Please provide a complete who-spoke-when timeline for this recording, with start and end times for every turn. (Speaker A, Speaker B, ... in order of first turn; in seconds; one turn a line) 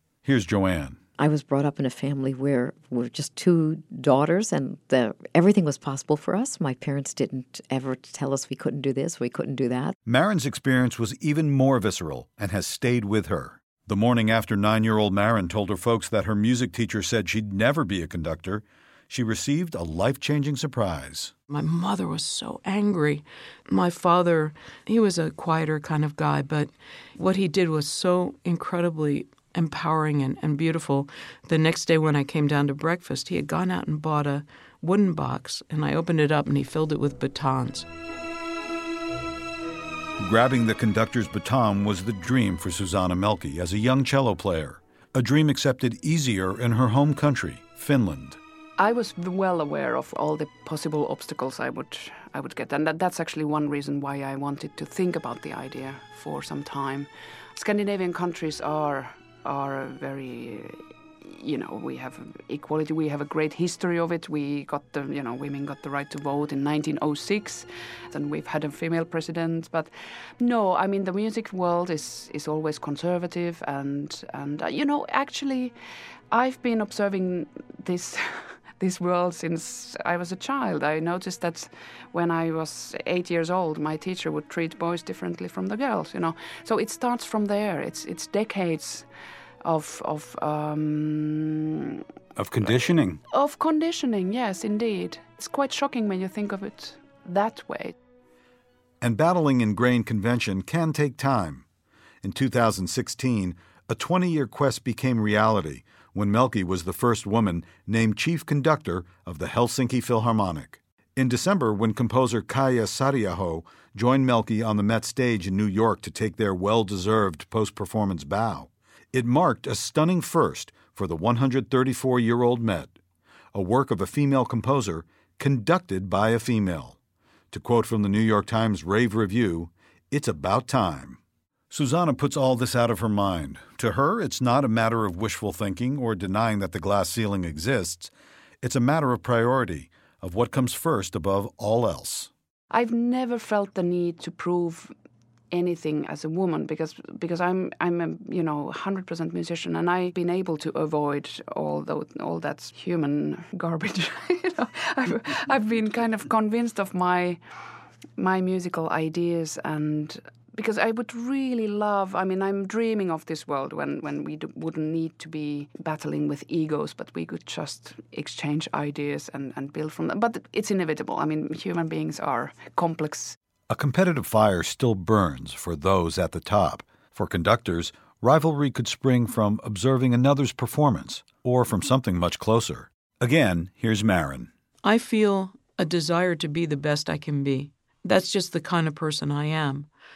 Speaker A: 0.2-1.0
Speaker B: 1.2-10.0
Speaker A: 10.1-21.3
Speaker C: 21.5-37.9
Speaker A: 40.2-48.4
Speaker D: 48.8-75.8
Speaker D: 76.3-89.1
Speaker D: 89.6-92.0
Speaker A: 92.3-93.2
Speaker D: 93.3-97.9
Speaker A: 99.0-101.7
Speaker A: 102.2-123.0
Speaker A: 123.5-127.0
Speaker A: 127.5-131.2
Speaker A: 131.7-142.3
Speaker D: 142.7-144.9
Speaker D: 145.5-157.4
Speaker D: 158.2-173.4
Speaker A: 173.7-184.5
Speaker C: 184.8-189.9